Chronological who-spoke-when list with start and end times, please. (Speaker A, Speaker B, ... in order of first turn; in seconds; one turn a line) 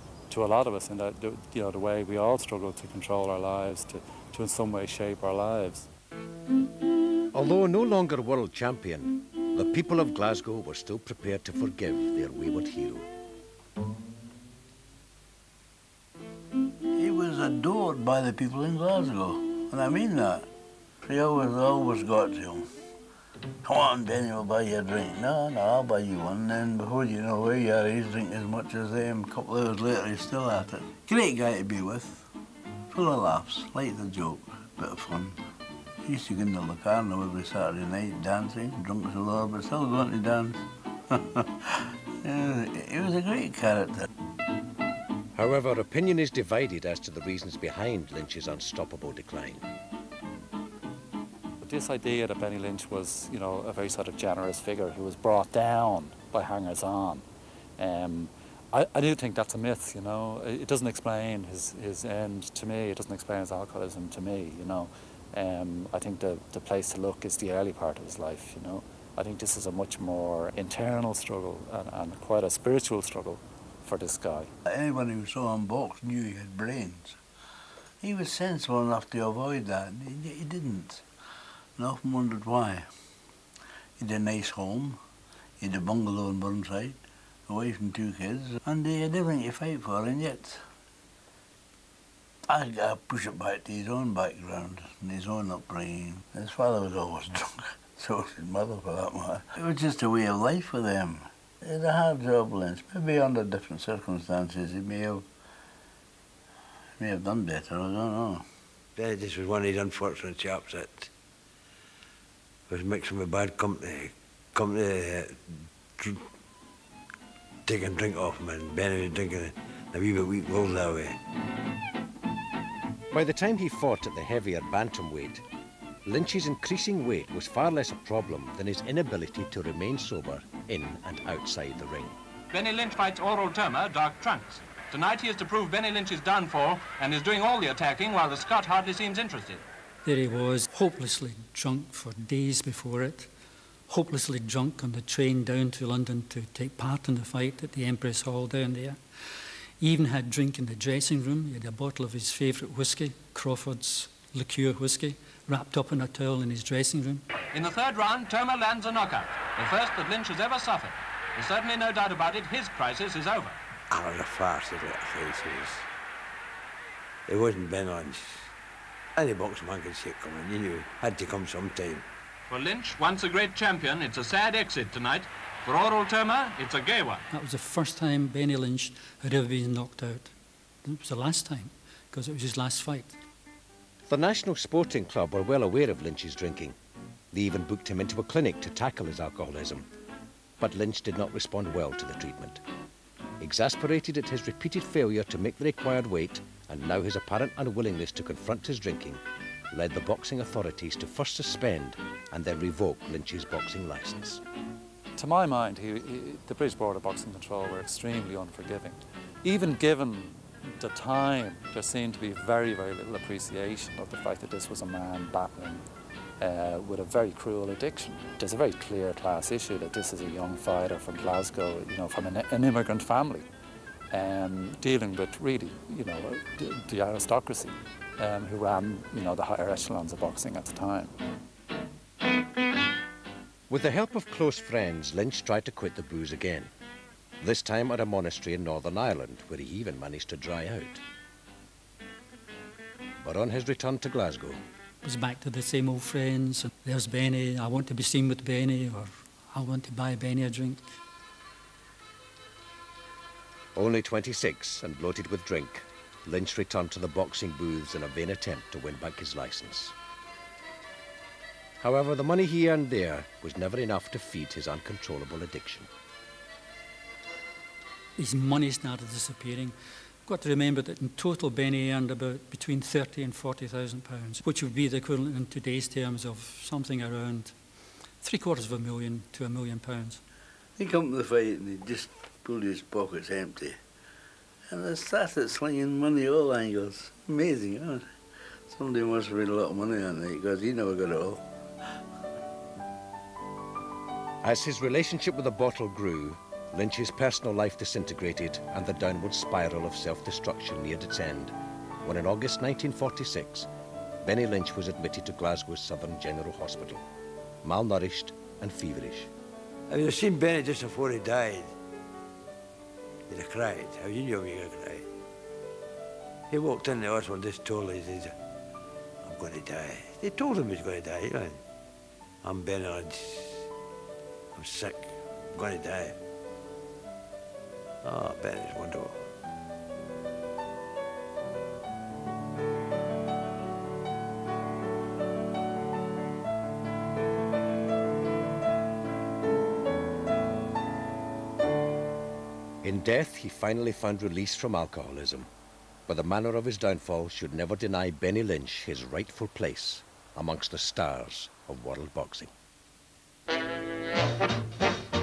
Speaker A: 0.3-5.9
Speaker B: 7.3-13.1
Speaker C: 17.0-20.5
Speaker C: 21.0-22.7
Speaker C: 23.6-32.3
Speaker C: 32.9-35.4
Speaker C: 36.0-44.0
Speaker B: 45.3-49.7
Speaker A: 51.6-57.3
Speaker A: 57.8-74.5
Speaker C: 74.7-77.2
Speaker C: 78.0-81.0
Speaker C: 81.8-82.9
Speaker C: 84.0-85.0
Speaker C: 85.6-90.6
Speaker C: 92.5-105.3
Speaker C: 107.0-108.5
Speaker D: 109.0-111.1
Speaker D: 112.7-116.2
Speaker D: 117.6-121.2
Speaker B: 123.1-125.4
Speaker B: 126.0-132.2
Speaker E: 132.5-139.6
Speaker F: 140.0-143.3
Speaker F: 143.9-149.0
Speaker F: 149.8-157.2
Speaker E: 157.5-163.6
Speaker D: 163.9-165.8
Speaker D: 167.3-168.5
Speaker D: 169.2-172.0
Speaker E: 172.5-177.2
Speaker F: 177.3-180.3
Speaker F: 180.8-183.2
Speaker B: 184.1-186.8
Speaker B: 187.3-189.9
Speaker B: 190.6-192.6
Speaker B: 193.4-204.4
Speaker A: 205.2-215.8
Speaker A: 216.4-223.5
Speaker A: 224.1-231.2
Speaker B: 233.7-236.7
Speaker B: 237.4-241.0
Speaker B: 243.2-244.6
Speaker F: 245.0-251.0
Speaker B: 253.7-259.9
Speaker B: 261.8-265.9
Speaker F: 268.2-277.5
Speaker F: 278.2-280.2
Speaker C: 280.8-283.8
Speaker C: 284.7-288.1
Speaker C: 288.7-291.4
Speaker B: 294.4-303.7
Speaker B: 304.2-307.0
Speaker B: 307.6-309.3
Speaker D: 309.9-311.7
Speaker D: 313.3-315.1
Speaker D: 316.5-318.3
Speaker D: 319.2-321.6
Speaker D: 322.4-323.7
Speaker D: 324.5-326.2
Speaker D: 328.0-329.2
Speaker B: 342.8-345.5
Speaker B: 346.1-352.5